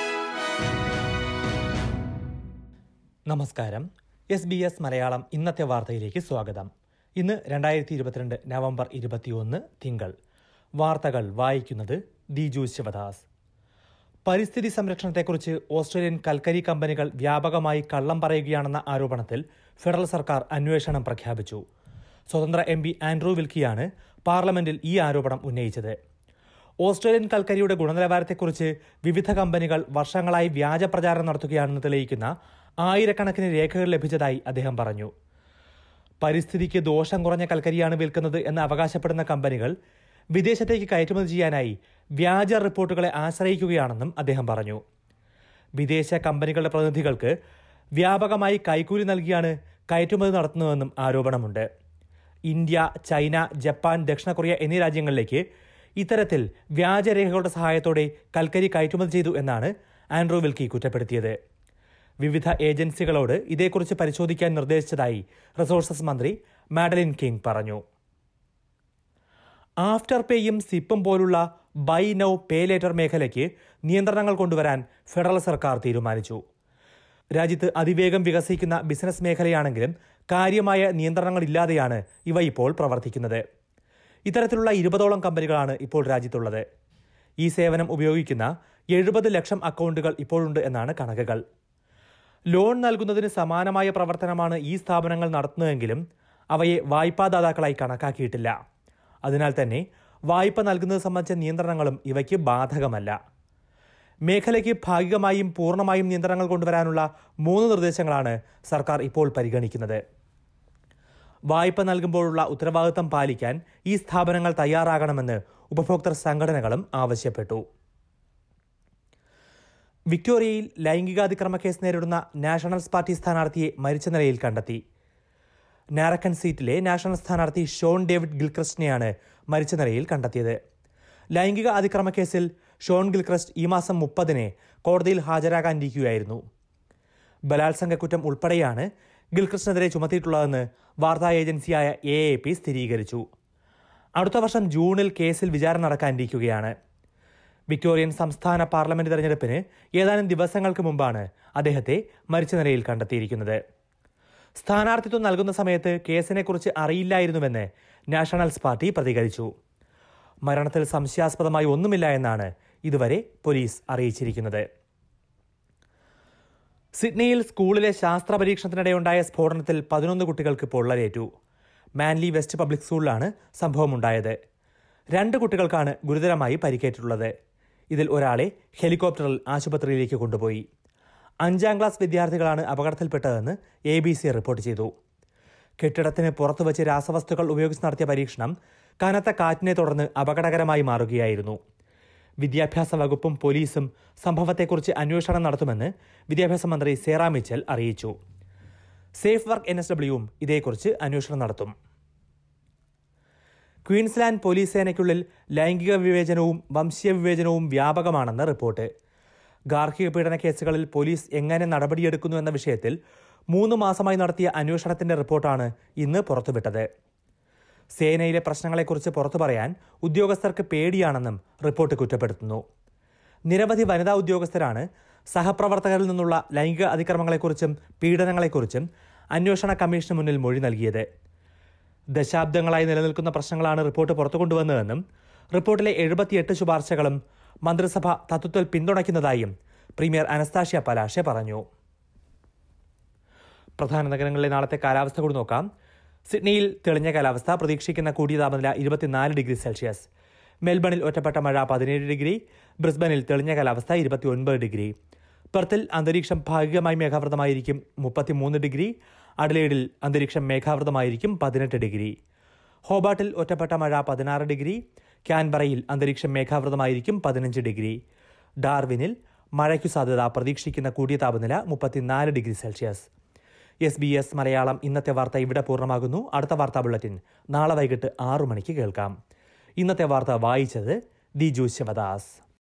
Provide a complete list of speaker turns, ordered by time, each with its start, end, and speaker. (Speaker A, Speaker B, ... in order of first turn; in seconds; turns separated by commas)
Speaker A: 3.3-10.1, Speaker A: 10.8-13.2, Speaker A: 14.3-21.6, Speaker A: 22.3-26.0, Speaker A: 26.8-35.1, Speaker A: 36.2-39.7, Speaker A: 40.3-44.8, Speaker A: 45.8-47.4, Speaker A: 48.0-51.7, Speaker A: 52.5-55.4, Speaker A: 56.0-61.4, Speaker A: 62.2-67.8, Speaker A: 69.8-76.4, Speaker A: 77.4-83.4, Speaker A: 84.3-86.6, Speaker A: 87.4-91.4, Speaker A: 92.5-98.5, Speaker A: 99.2-103.2, Speaker A: 104.3-110.0, Speaker A: 111.5-117.6, Speaker A: 120.1-124.8, Speaker A: 126.0-130.6, Speaker A: 131.3-136.4, Speaker A: 137.5-143.2, Speaker A: 144.2-146.7, Speaker A: 147.7-153.6, Speaker A: 154.6-159.5, Speaker A: 160.5-164.6, Speaker A: 167.0-171.3, Speaker A: 172.0-174.4, Speaker A: 175.2-177.3, Speaker A: 177.9-180.6, Speaker A: 181.4-184.9, Speaker A: 185.8-191.6, Speaker A: 192.4-198.1, Speaker A: 199.2-201.7, Speaker A: 203.9-208.9, Speaker A: 209.7-212.9, Speaker A: 213.5-216.9, Speaker A: 218.0-222.6, Speaker A: 223.5-231.1, Speaker A: 232.2-235.0, Speaker A: 235.6-241.6, Speaker A: 243.8-245.7, Speaker A: 246.3-250.1, Speaker A: 250.7-254.9, Speaker A: 255.5-262.1, Speaker A: 262.9-268.0, Speaker A: 268.6-273.1, Speaker A: 273.9-279.1, Speaker A: 279.8-282.4